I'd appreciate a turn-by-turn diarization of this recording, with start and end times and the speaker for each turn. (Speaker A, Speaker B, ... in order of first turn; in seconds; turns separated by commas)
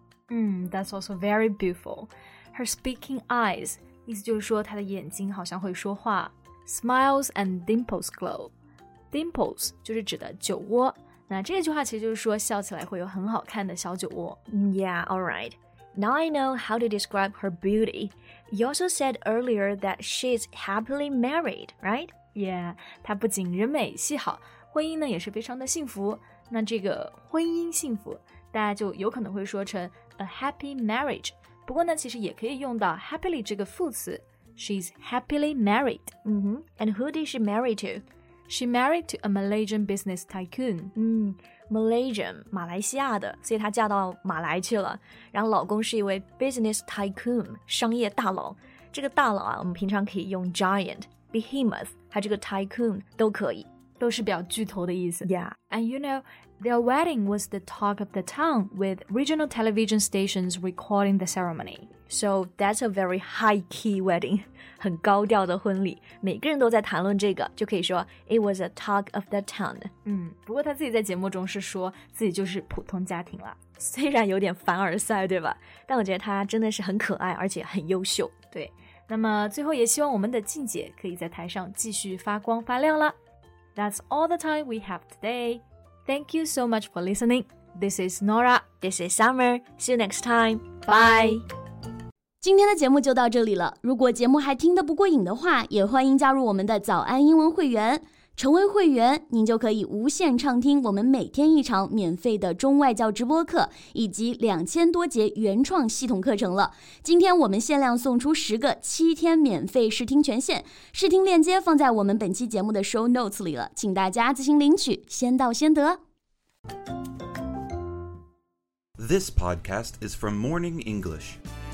Speaker A: 0.3-8.5, Speaker A: 9.1-14.4, Speaker B: 14.5-22.1, Speaker A: 22.3-36.1, Speaker B: 36.2-38.0, Speaker A: 38.5-40.9, Speaker B: 40.9-53.7, Speaker A: 54.0-61.9, Speaker B: 55.2-55.5, Speaker B: 62.1-69.9, Speaker A: 70.0-73.6, Speaker B: 73.8-78.3, Speaker A: 78.5-83.1, Speaker A: 83.8-88.7, Speaker B: 88.8-91.4, Speaker A: 90.9-91.4, Speaker C: 92.4-116.0, Speaker D: 119.0-121.4